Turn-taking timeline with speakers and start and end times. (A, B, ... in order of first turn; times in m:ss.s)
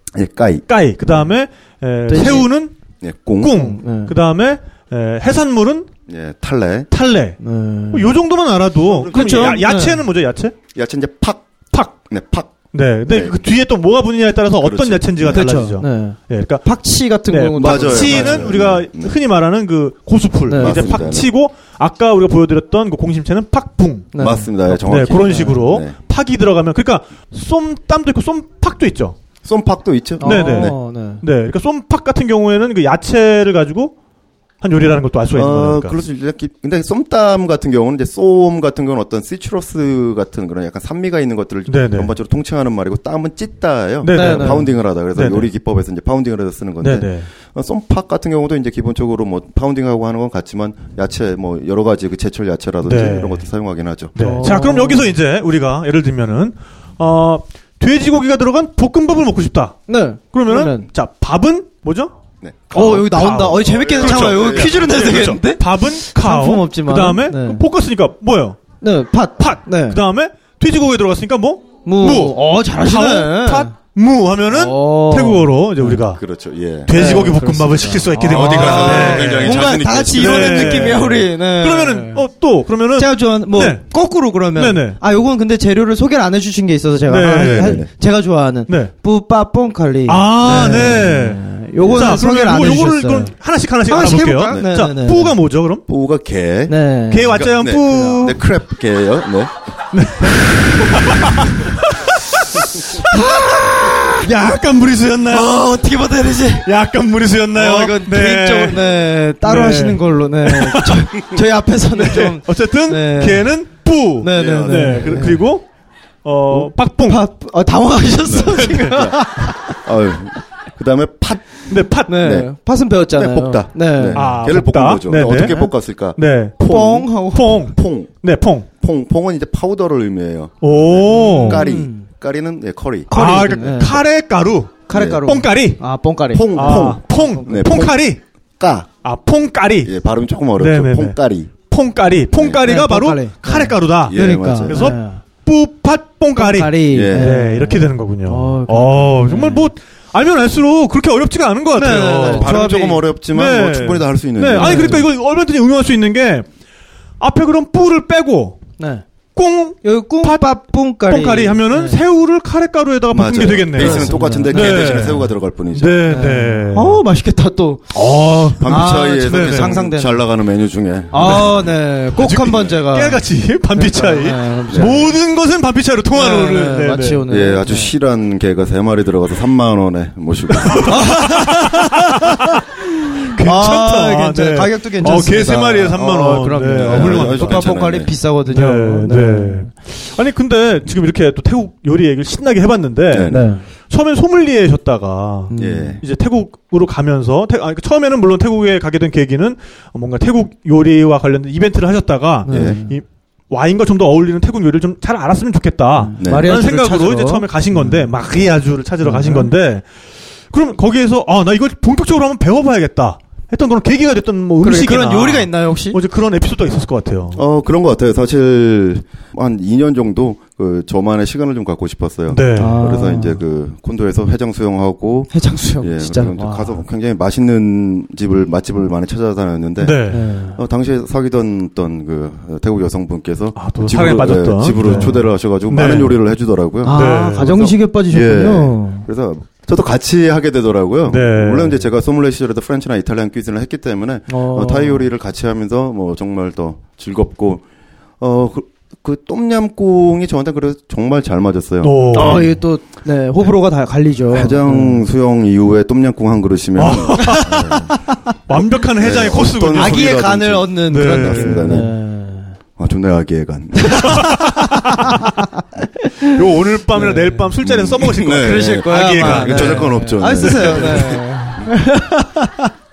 0:00.1-0:00.6 A
0:00.7-0:02.7 B
0:02.1-0:02.5 C
0:02.1-0:02.5 A
0:03.0-0:03.6 A
0:03.4-0:05.9 B
0:03.5-0:04.2 C
0:06.1-0:06.9 A
0:06.9-0:07.4 B
0:07.4-0:08.2 C
0:07.9-0:10.6 B
0:08.9-0:09.6 A
0:09.1-0:10.1 C
0:10.7-0:13.4 A
0:12.7-0:16.6 B
0:14.6-0:15.6 A
0:15.3-0:18.6 C
0:17.3-0:24.1 B
0:17.5-0:19.1 A
0:20.5-0:21.1 C
0:20.6-0:21.3 A
0:24.1-0:24.5 C
0:24.2-0:26.0 A
0:24.7-0:29.2 B
0:25.1-0:25.6 C
0:29.4-0:30.8 A
0:30.2-0:31.2 C
0:30.2-0:33.9 B
0:34.6-0:36.0 B
0:35.3-0:54.4 A
0:41.7-0:42.1 B
0:44.0-0:45.5 B
0:44.1-0:44.7 C
0:46.8-0:47.3 B
0:52.8-0:53.4 B
0:54.2-1:02.1 B
0:54.2-0:55.1 C
0:59.9-1:00.9 C
1:02.4-1:05.4 A
1:02.7-1:07.6 C
1:02.8-1:08.6 B
1:08.8-1:10.0 C
1:09.4-1:16.2 B
1:11.8-1:13.8 C
1:14.5-1:16.0 C
1:16.1-1:17.2 A
1:16.9-1:25.0 B
1:16.9-1:22.3 C
1:18.3-1:21.1 A
1:23.0-1:33.4 C
1:27.1-1:27.9 B
1:27.3-1:27.9 A
1:28.7-1:28.9 B
1:30.1-1:35.8 B
1:30.6-1:30.9 A
1:31.8-1:32.3 A
1:33.9-1:35.4 C
1:35.9-1:39.5 A
1:36.7-1:38.3 C
1:37.1-1:38.3 B
1:39.9-1:43.3 B
1:43.1-1:44.6 C
1:44.2-1:45.6 B
1:45.2-1:46.7 C
1:46.6-1:51.0 B
1:47.5-1:53.6 C
1:51.9-1:55.6 B
1:54.2-1:55.4 C
1:54.3-1:55.4 A
1:56.2-1:57.2 B
1:57.1-1:59.8 C
1:58.2-2:02.5 A
1:58.5-1:59.1 B
2:01.7-2:02.3 B
2:02.1-2:04.4 C
2:03.1-2:08.1 A
2:04.1-2:06.6 B
2:06.6-2:07.6 C
2:07.2-2:08.7 B
2:08.8-2:13.1 A
2:10.6-2:11.7 B
2:11.1-2:12.1 C
2:13.1-2:15.8 B
2:13.1-2:14.0 C
2:14.9-2:17.6 C
2:14.9-2:15.4 A
2:16.3-2:18.0 A
2:16.5-2:18.2 B
2:18.6-2:18.9 A
2:19.0-2:19.9 B
2:19.8-2:21.5 A
2:20.6-2:32.8 B
2:22.4-2:22.6 A
2:22.6-2:25.2 C
2:24.1-2:25.0 A
2:26.4-2:29.7 C
2:26.9-2:27.4 A
2:31.7-2:33.1 C
2:32.2-2:35.0 A
2:33.3-2:36.5 B
2:34.6-2:35.1 C
2:37.2-2:38.6 B
2:38.8-2:39.0 C
2:39.4-2:47.0 B
2:39.8-2:42.0 C
2:43.1-2:46.2 A
2:43.8-2:44.8 C
2:46.1-2:50.2 C
2:47.9-2:49.9 B
2:48.6-2:51.7 A
2:51.1-2:55.2 C
2:51.2-2:51.6 B
2:52.1-2:57.2 B
2:54.7-2:55.0 A
2:56.1-2:57.9 C
2:57.3-3:01.2 A
3:00.6-3:02.6 B
3:00.9-3:01.8 C
3:03.3-3:07.7 B
3:03.3-3:09.7 C
3:06.7-3:08.1 A
3:08.4-3:29.9 B
3:13.1-3:13.4 A
3:13.3-3:13.6 C
3:15.5-3:16.0 C
3:15.6-3:16.0 A
3:22.4-3:23.0 C
3:22.5-3:22.8 A
3:26.0-3:28.1 C
3:26.2-3:26.6 A
3:29.0-3:29.5 C
3:30.5-3:37.4 B
3:34.6-3:36.0 C
3:37.4-3:50.0 A
3:42.3-3:42.8 B
3:42.6-3:43.4 C
3:45.3-3:46.8 C
3:49.8-3:50.3 B
3:50.1-3:50.6 C
3:50.6-4:07.6 A
3:53.6-3:56.2 B
3:54.8-3:55.2 C
3:56.8-3:59.1 C
3:56.9-3:57.7 B
4:01.1-4:01.7 B
4:04.3-4:05.1 C
4:08.2-4:12.5 A
4:11.8-4:12.6 B
4:12.1-4:15.0 C
4:14.3-4:17.9 A
4:16.8-4:20.3 B
4:17.2-4:17.8 C
4:19.0-4:21.9 A
4:19.7-4:22.6 C
4:20.9-4:21.9 B
4:22.8-4:24.3 A
4:23.9-4:24.6 C
4:24.1-4:25.2 B
4:26.3-4:31.2 B
4:26.9-4:27.5 C
4:27.6-4:31.7 A
4:28.3-4:32.7 C